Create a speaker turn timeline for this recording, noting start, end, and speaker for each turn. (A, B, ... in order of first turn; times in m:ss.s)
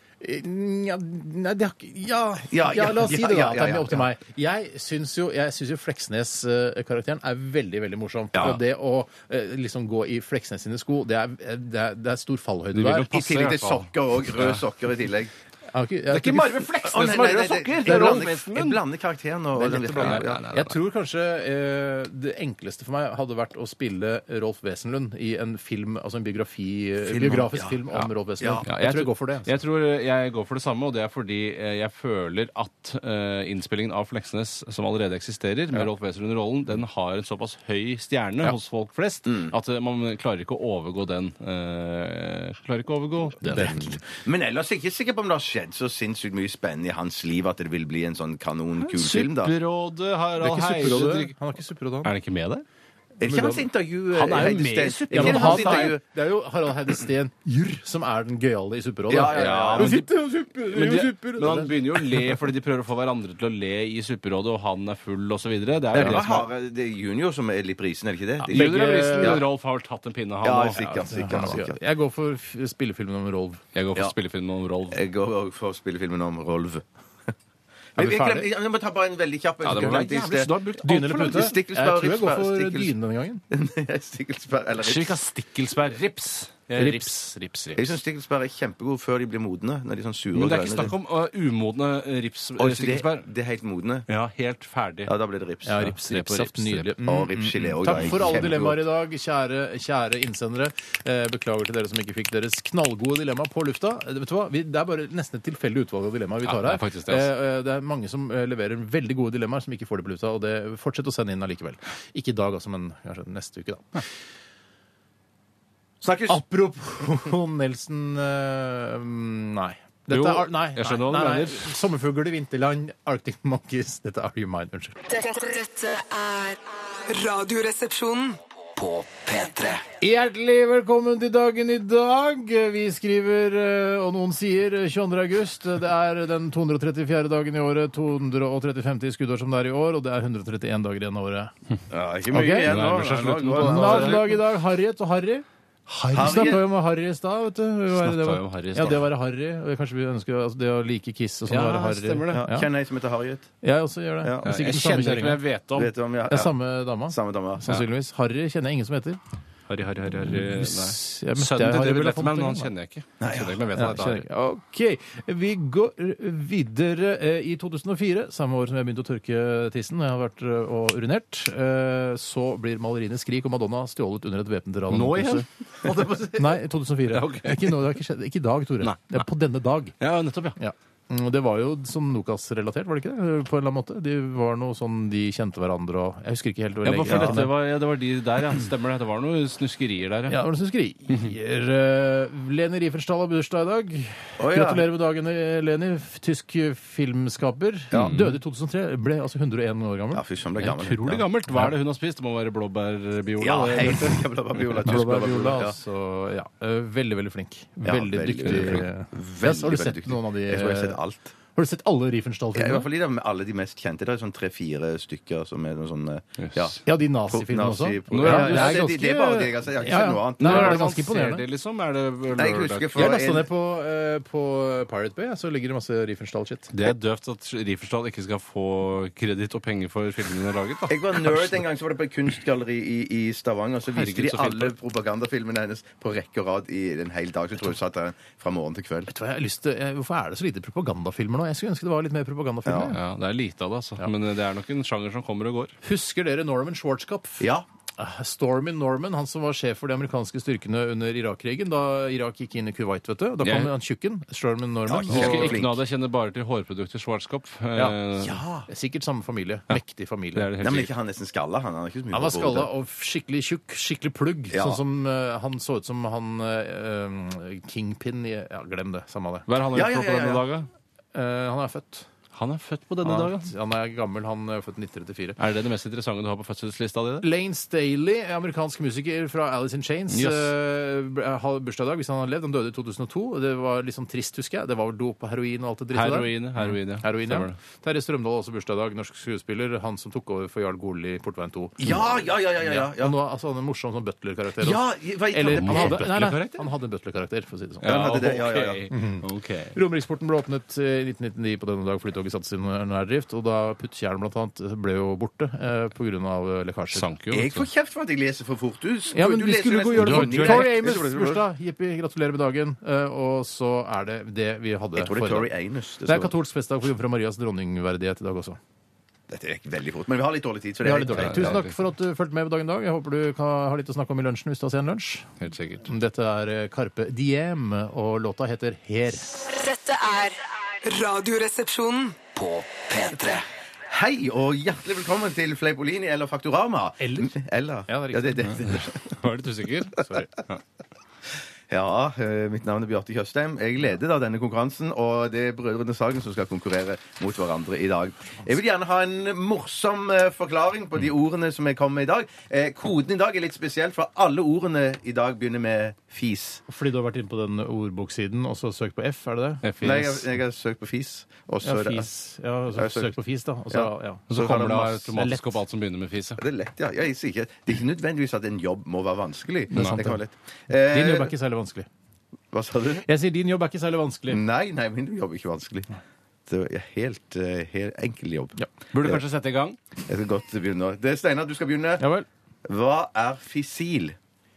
0:00.2-0:13.1 A
0:02.5-0:04.1 B
0:08.3-0:08.6 B
0:12.7-0:14.6 C
0:13.1-0:15.3 B
0:15.7-0:16.7 A
0:16.1-0:18.8 C
0:16.8-0:20.4 B
0:17.8-0:18.3 A
0:19.6-0:29.5 A
0:19.9-0:20.8 C
0:27.0-0:27.8 B
0:28.4-0:28.6 B
0:28.6-0:43.9 C
0:43.4-0:44.0 A
0:43.5-0:49.6 B
0:48.8-0:51.3 C
0:50.4-0:52.1 A
0:52.0-0:52.6 C
0:53.2-0:56.0 B
0:53.2-0:53.6 A
0:54.2-0:55.9 C
0:54.2-1:02.3 A
0:59.1-1:00.0 B
0:59.1-1:06.5 C
1:05.9-1:09.4 B
1:08.4-1:09.4 A
1:08.5-1:10.8 C
1:10.4-1:11.8 B
1:10.8-1:13.6 A
1:13.7-1:15.0 C
1:14.9-1:16.8 B
1:17.9-1:22.9 B
1:18.0-1:18.5 A
1:19.6-1:21.5 C
1:20.6-1:23.4 A
1:23.5-1:25.2 B
1:24.8-1:27.9 C
1:26.7-1:27.2 A
1:27.8-1:30.9 B
1:30.3-1:33.2 C
1:32.6-1:34.0 B
1:34.1-1:35.1 C
1:35.0-1:35.8 B
1:35.6-1:54.0 A
1:35.7-1:36.9 C
1:37.0-1:38.8 B
1:37.9-1:38.4 C
1:46.4-1:47.3 C
1:56.0-1:56.4 B
1:56.3-2:05.1 A
2:00.1-2:01.7 C
2:05.1-2:08.4 D
2:08.7-2:09.8 E
2:10.0-2:21.5 A
2:21.9-2:24.4 B
2:22.3-2:22.8 A
2:22.6-2:24.3 C
2:23.5-2:32.7 A
2:26.1-2:26.6 B
2:27.9-2:29.0 C
2:31.5-2:32.4 C
2:32.3-2:33.5 B
2:33.6-2:35.4 A
2:34.2-2:34.6 B
2:34.4-2:35.9 C
2:35.7-2:36.5 B
2:36.3-2:39.2 A
2:37.1-2:37.6 B
2:39.7-2:44.2 C
2:40.2-2:42.7 A
2:43.2-2:43.6 B
2:43.8-2:55.4 A
2:54.9-2:57.8 C
2:56.2-3:00.0 A
2:58.8-2:59.2 C
3:00.0-3:00.6 C
3:00.6-3:07.5 A
3:06.8-3:10.4 C
3:07.0-3:07.4 B
3:10.3-3:20.2 A
3:14.4-3:14.8 B
3:17.9-3:18.4 C
3:20.1-3:21.2 B
3:20.6-3:24.2 C
3:23.4-3:25.8 B
3:24.8-3:31.0 A
3:27.8-3:31.3 B
3:28.5-3:28.8 C
3:31.5-3:32.8 A
3:32.5-3:40.8 B
3:36.4-3:36.7 C
3:36.8-3:41.4 A
3:38.1-3:38.8 C
3:40.4-3:43.1 C
3:42.3-3:43.5 B
3:42.9-3:46.7 A
3:46.7-3:51.6 C
3:50.9-3:59.1 B
3:53.9-3:54.7 C
3:59.1-4:03.0 A
4:02.6-4:02.9 B
4:02.9-4:05.7 C
4:05.8-4:07.4 A
4:07.4-4:07.6 B
4:08.0-4:15.6 A
4:13.4-4:13.7 C
4:14.9-4:15.8 B
4:15.1-4:18.4 C
4:18.2-4:18.7 B
4:18.7-4:20.5 A
4:20.3-4:20.9 C
4:20.6-4:22.7 B
4:22.1-4:29.5 A
4:24.5-4:24.8 B
4:29.5-4:30.7 C
4:29.7-4:30.4 B
4:31.1-4:32.1 A
4:32.3-4:33.5 C
4:33.0-4:35.4 A
4:35.4-4:37.2 C
4:37.2-4:58.2 A
4:40.1-4:40.5 C
4:45.9-4:47.6 C
4:51.8-4:53.1 B
4:54.6-4:56.0 B
4:55.4-4:56.7 C
4:57.8-4:59.7 C
4:57.8-4:58.8 B
4:58.9-5:07.0 A
5:06.9-5:07.6 C
5:07.3-5:11.4 B
5:09.1-5:15.5 A
5:10.0-5:10.8 C
5:15.0-5:16.3 B
5:16.0-5:18.6 A
5:19.3-5:21.6 B
5:20.8-5:25.3 A
5:21.1-5:21.7 C
5:25.4-5:25.9 C
5:25.8-5:29.4 A
5:29.4-5:32.2 D
5:32.3-5:33.4 E
5:33.9-5:39.2 B
5:37.0-5:37.4 A
5:37.9-5:38.7 A
5:39.1-5:40.6 C
5:40.0-5:40.3 A
5:41.7-5:56.6 B
5:56.7-5:59.6 A
5:59.6-6:00.2 C
5:59.8-6:02.1 B
6:01.6-6:05.6 A
6:02.7-6:03.2 B
6:03.7-6:04.9 B
6:04.3-6:06.4 C
6:06.4-6:11.3 B
6:09.7-6:10.2 A
6:09.7-6:10.0 C
6:10.7-6:11.9 A
6:12.5-6:13.0 B
6:13.0-6:14.4 A
6:14.3-6:15.9 B
6:16.5-6:19.2 B
6:18.9-6:19.8 C
6:20.1-6:22.1 B
6:22.0-6:22.2 A
6:22.6-6:24.2 B